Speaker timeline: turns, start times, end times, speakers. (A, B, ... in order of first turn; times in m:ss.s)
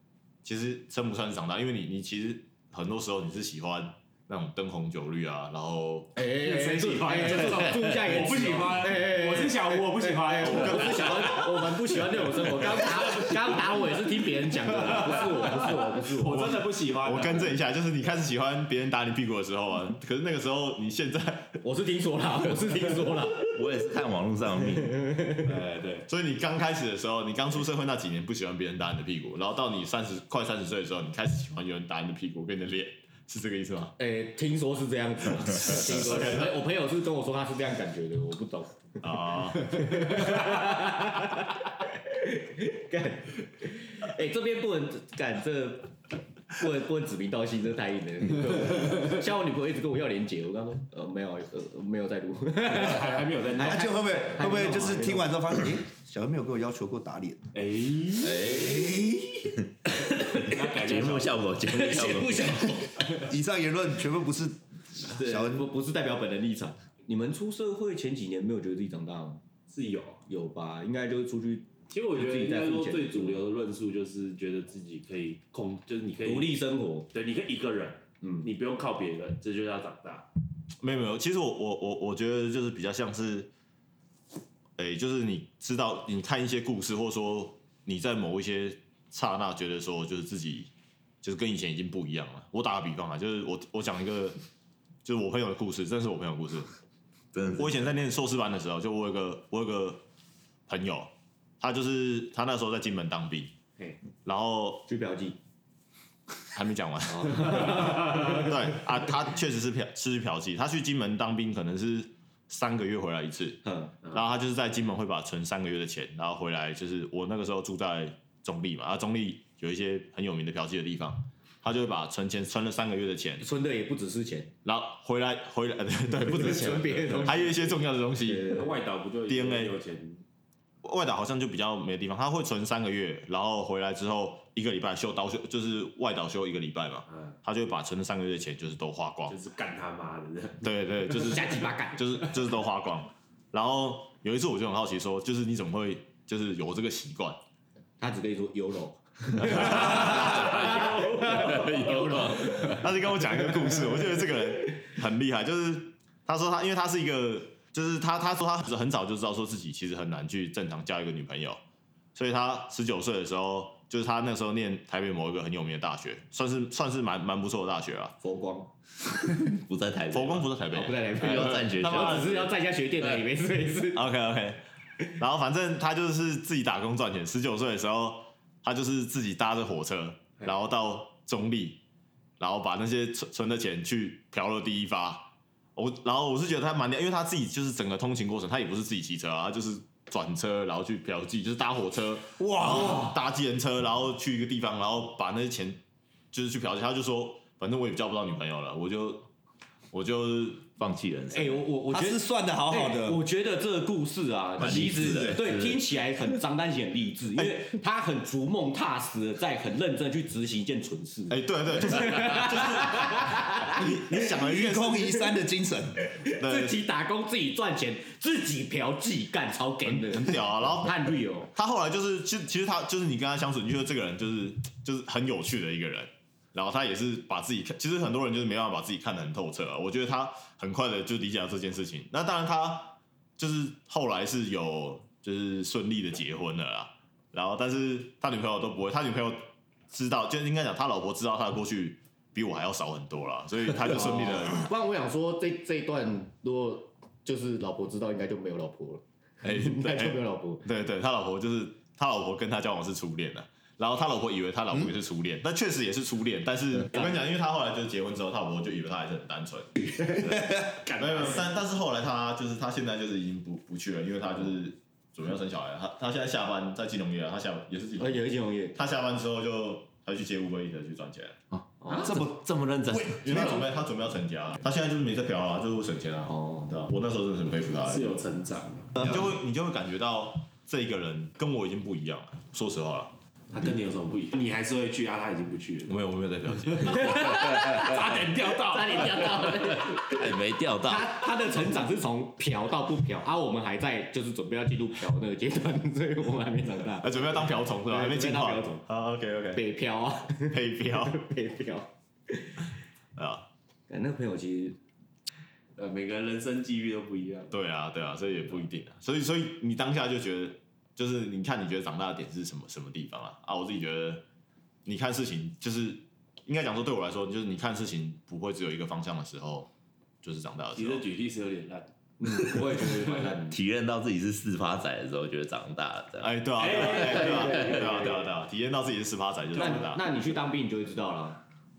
0:00.4-0:06.1 A
0:06.1-0:16.6 B
0:06.3-0:11.4 C
0:10.4-0:11.4 A
0:12.4-0:13.9 C
0:14.6-0:17.6 C
0:16.3-0:21.6 A
0:21.6-0:23.8 B
0:23.5-0:25.1 D
0:24.7-0:25.5 B
0:25.4-0:26.1 C
0:26.1-0:33.9 A
0:34.0-0:46.0 B
0:35.7-0:36.6 A
0:39.0-0:40.0 A
0:46.5-0:55.4 B
0:52.6-0:54.0 C
0:53.6-0:57.4 E
0:57.5-0:58.4 C
0:58.2-0:59.2 D
1:00.1-1:00.5 B
1:00.3-1:01.5 C
1:00.4-1:02.8 D
1:01.7-1:03.2 B
1:03.2-1:05.7 E
1:05.1-1:09.4 B
1:09.7-1:10.2 C
1:10.2-1:13.4 B
1:11.9-1:20.3 C
1:16.2-1:17.1 B
1:18.2-1:18.5 B
1:20.8-1:23.5 A
1:24.8-1:30.7 A
1:31.2-1:34.4 A
1:35.0-1:36.7 A
1:37.3-1:37.8 D
1:37.5-1:40.0 A
1:40.7-1:43.5 A
1:44.2-1:44.9 A
1:44.9-1:45.4 B
1:46.5-2:03.4 A
1:47.1-1:48.5 B
1:53.6-1:54.0 B
2:03.4-2:04.5 B
2:04.6-2:08.7 A
2:06.2-2:08.7 B
2:08.5-2:10.2 C
2:09.3-2:09.8 A
2:10.8-2:19.3 A
2:17.1-2:17.4 C
2:19.3-2:20.6 C
2:20.6-2:27.4 A
2:21.2-2:22.0 B
2:28.0-2:32.9 B
2:29.5-2:30.0 A
2:29.6-2:32.3 C
2:31.3-2:32.8 D
2:32.3-2:41.6 A
2:42.1-2:48.1 A
2:48.2-2:48.7 B
2:49.4-2:50.5 D
2:50.1-2:52.5 A
2:50.7-2:54.0 B
2:51.1-2:52.5 D
2:53.9-2:54.6 A
2:55.2-3:01.8 A
3:02.4-3:15.8 A
3:12.4-3:13.1 E
3:16.3-3:19.3 A
3:19.9-3:20.7 A
3:20.8-3:21.6 D
3:21.3-3:33.8 B
3:21.9-3:23.2 E
3:24.6-3:25.8 D
3:31.3-3:35.3 A
3:34.1-3:36.1 E
3:36.2-3:41.5 B
3:36.4-3:36.8 A
3:39.8-4:04.7 A
4:03.9-4:10.6 B
4:09.4-4:20.3 A
4:20.6-4:21.5 C
4:20.9-4:31.4 A
4:28.0-4:28.8 B
4:31.5-4:33.6 D
4:31.8-4:32.2 B
4:32.0-4:33.6 E
4:33.0-4:38.2 A
4:36.2-4:36.8 B
4:37.8-4:39.0 C
4:38.9-4:43.1 A
4:43.5-4:46.0 C
4:45.9-4:47.2 A
4:46.9-4:49.7 C
4:47.0-4:58.8 B
4:50.0-4:51.1 D
4:57.0-4:59.6 A
4:59.5-5:02.7 B
5:00.5-5:01.2 A
5:03.2-5:03.4 A
5:03.9-5:04.8 B
5:05.8-5:07.5 C
5:07.5-5:14.2 A
5:14.8-5:19.7 A
5:20.2-5:21.0 A
5:20.7-5:21.9 C
5:22.2-5:23.6 B
5:23.4-5:26.3 D
5:26.2-5:30.0 A
5:26.6-5:28.3 C
5:29.5-5:31.4 B